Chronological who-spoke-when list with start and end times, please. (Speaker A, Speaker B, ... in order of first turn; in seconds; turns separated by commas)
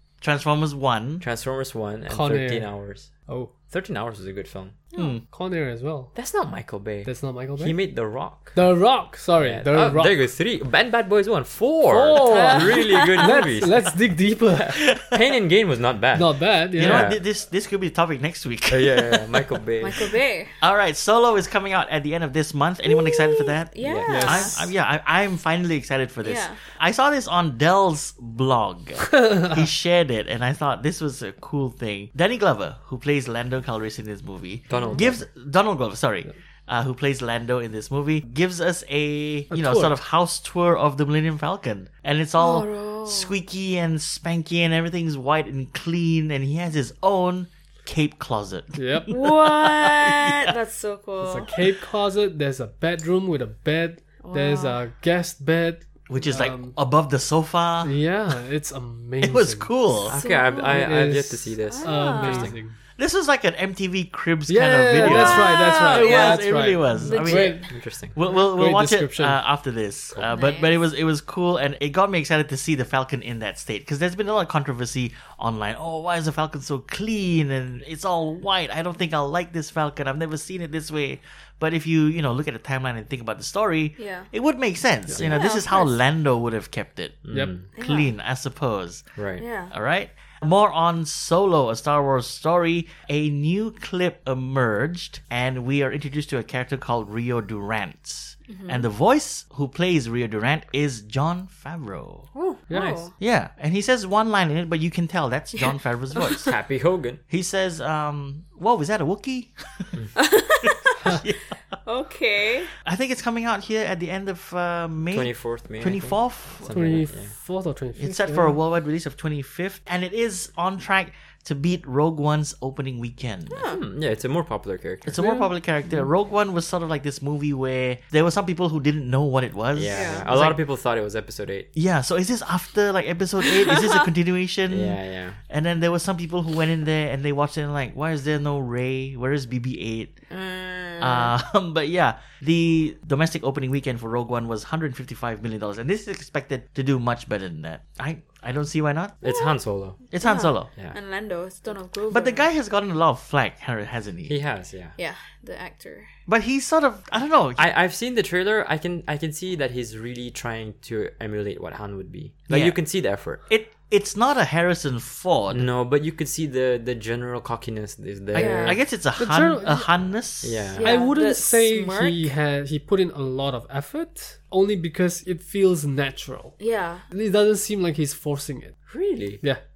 Speaker A: 0.2-1.2, Speaker B: 1.2-3.1, Speaker C: 2.1-2.7, Speaker C: 3.3-3.5, Speaker B: 3.7-4.8, Speaker A: 5.0-5.2, Speaker C: 5.2-6.1, Speaker B: 6.1-8.6, Speaker C: 7.0-7.8, Speaker C: 8.5-10.1, Speaker B: 9.4-13.9, Speaker C: 11.9-14.8, Speaker D: 12.2-13.4, Speaker B: 14.6-17.2, Speaker A: 14.7-15.1, Speaker C: 16.1-17.1, Speaker A: 16.8-19.2, Speaker B: 18.7-20.2, Speaker D: 19.8-20.5, Speaker A: 20.6-50.5, Speaker D: 22.9-24.6, Speaker B: 23.8-24.4, Speaker C: 24.1-24.7, Speaker D: 26.2-26.6, Speaker B: 34.7-35.2, Speaker D: 34.7-35.0, Speaker C: 39.5-40.0, Speaker D: 42.4-43.3, Speaker C: 48.7-49.2, Speaker D: 49.1-51.5, Speaker C: 51.2-56.8, Speaker D: 54.2-54.8, Speaker A: 56.1-58.0, Speaker C: 57.8-59.7, Speaker A: 59.2-60.2, Speaker B: 60.1-62.5, Speaker D: 60.1-60.9, Speaker C: 60.6-62.8, Speaker D: 61.6-62.5, Speaker A: 63.0-89.0, Speaker C: 64.5-67.7, Speaker D: 65.0-67.7, Speaker B: 67.7-68.2, Speaker C: 68.2-69.4, Speaker D: 70.3-70.8, Speaker D: 84.0-84.3, Speaker D: 85.2-85.9, Speaker B: 87.2-87.6, Speaker D: 87.8-88.1, Speaker B: 89.2-89.4, Speaker D: 89.4-89.7, Speaker A: 89.7-102.3, Speaker D: 98.5-98.8, Speaker B: 102.4-103.1, Speaker C: 102.7-103.0, Speaker D: 102.7-103.1, Speaker A: 103.2-106.5, Speaker B: 106.4-107.2, Speaker A: 107.3-109.9, Speaker D: 110.2-111.1, Speaker A: 111.0-111.5, Speaker D: 111.8-112.7, Speaker A: 112.8-116.8, Speaker B: 115.1-117.3, Speaker C: 116.7-118.5, Speaker A: 118.0-123.7, Speaker D: 123.5-123.8, Speaker B: 123.6-125.2, Speaker A: 125.0-130.6, Speaker C: 125.2-125.5, Speaker B: 129.7-131.7, Speaker D: 129.9-130.3, Speaker A: 131.7-140.2, Speaker B: 134.7-135.4, Speaker D: 140.3-141.3, Speaker A: 141.0-149.2, Speaker B: 149.2-150.0, Speaker D: 149.2-149.5, Speaker A: 150.1-150.7, Speaker D: 150.2-152.4, Speaker A: 152.1-154.4, Speaker B: 154.3-154.9, Speaker D: 155.0-156.1, Speaker A: 156.3-157.7, Speaker B: 157.6-163.4, Speaker A: 162.5-162.8, Speaker A: 163.5-165.7, Speaker B: 165.5-168.8, Speaker A: 168.3-170.8, Speaker D: 168.3-168.8, Speaker C: 169.2-169.9, Speaker B: 170.4-170.9, Speaker D: 170.8-172.3, Speaker C: 170.8-178.8, Speaker D: 176.6-177.1, Speaker B: 178.9-179.4